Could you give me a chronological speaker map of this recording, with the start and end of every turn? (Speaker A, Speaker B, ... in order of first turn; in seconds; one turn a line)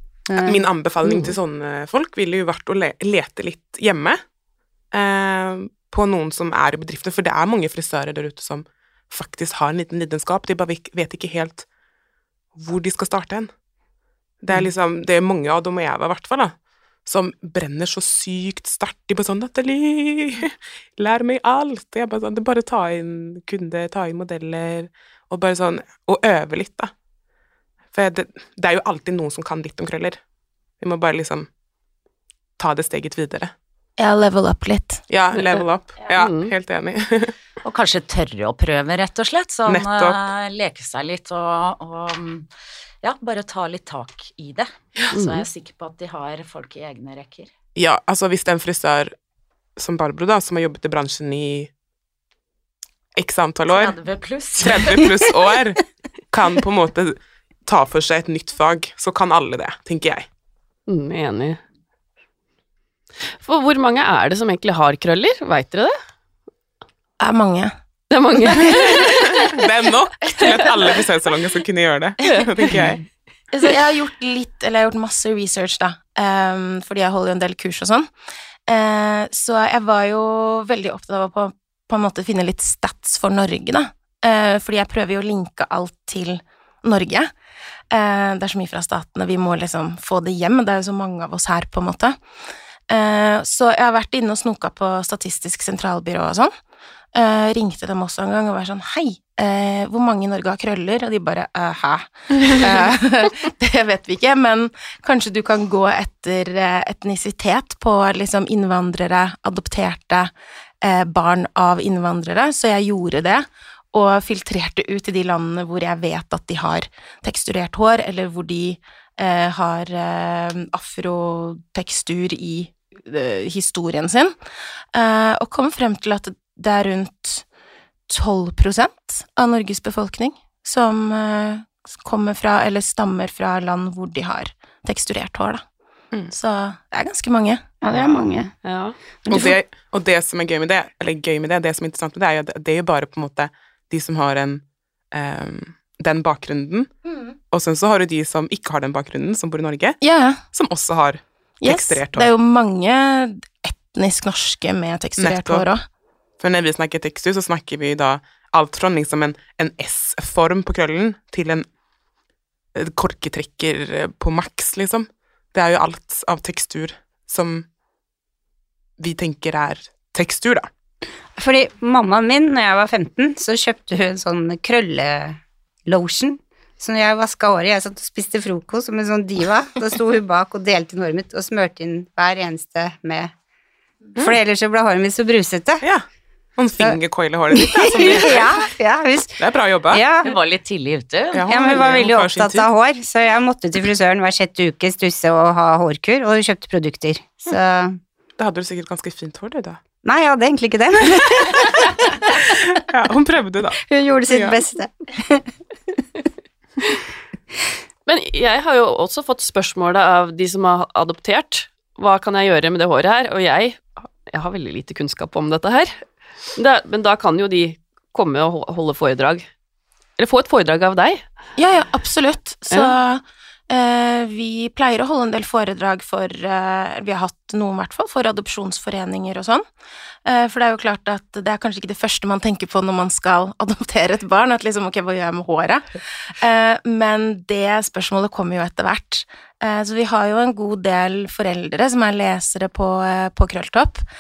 Speaker A: 0.3-0.6
Speaker B: 0.4-4.2
Speaker B: 4.9-11.7
Speaker B: 12.5-13.5
Speaker B: 14.4-26.9
Speaker B: 27.9-30.2
Speaker B: 30.8-31.5
Speaker B: 32.6-33.5
Speaker C: 34.0-35.0
Speaker B: 35.1-37.3
Speaker D: 35.3-35.6
Speaker D: 36.1-36.5
Speaker E: 37.6-42.5
Speaker B: 39.6-40.2
Speaker E: 43.0-47.5
Speaker D: 45.1-45.4
Speaker B: 47.7-49.1
Speaker B: 49.8-51.7
Speaker B: 53.1-54.0
Speaker E: 53.7-55.1
Speaker B: 54.6-60.3
Speaker D: 60.9-61.6
Speaker D: 63.4-65.9
Speaker C: 67.2-67.7
Speaker D: 68.1-69.5
Speaker B: 69.0-73.0
Speaker C: 73.5-78.1
Speaker C: 78.7-87.3
Speaker C: 87.9-92.2
Speaker C: 92.9-96.5
Speaker C: 97.1-124.3
Speaker C: 124.9-127.4
Speaker C: 128.1-135.6
Speaker C: 136.3-137.6
Speaker A: 137.8-138.5
Speaker D: 137.9-138.9
Speaker A: 139.2-139.6
Speaker B: 139.3-146.9
Speaker C: 147.0-147.4
Speaker B: 147.5-150.0
Speaker C: 150.0-150.4
Speaker B: 150.5-152.3
Speaker C: 151.6-155.8
Speaker B: 155.2-155.6
Speaker B: 156.4-161.7
Speaker B: 162.7-167.7
Speaker B: 169.0-170.7
Speaker A: 171.4-183.3
Speaker A: 184.2-185.8
Speaker B: 186.6-188.7
Speaker A: 187.5-190.3
Speaker B: 189.4-190.0
Speaker E: 190.2-192.0
Speaker B: 191.3-192.7
Speaker A: 191.5-198.0
Speaker B: 198.4-199.8
Speaker A: 200.0-202.2
Speaker B: 201.3-204.6
Speaker A: 203.8-205.5
Speaker D: 208.1-216.0
Speaker D: 216.6-219.5
Speaker D: 220.2-221.2
Speaker C: 221.6-229.6
Speaker C: 230.2-244.0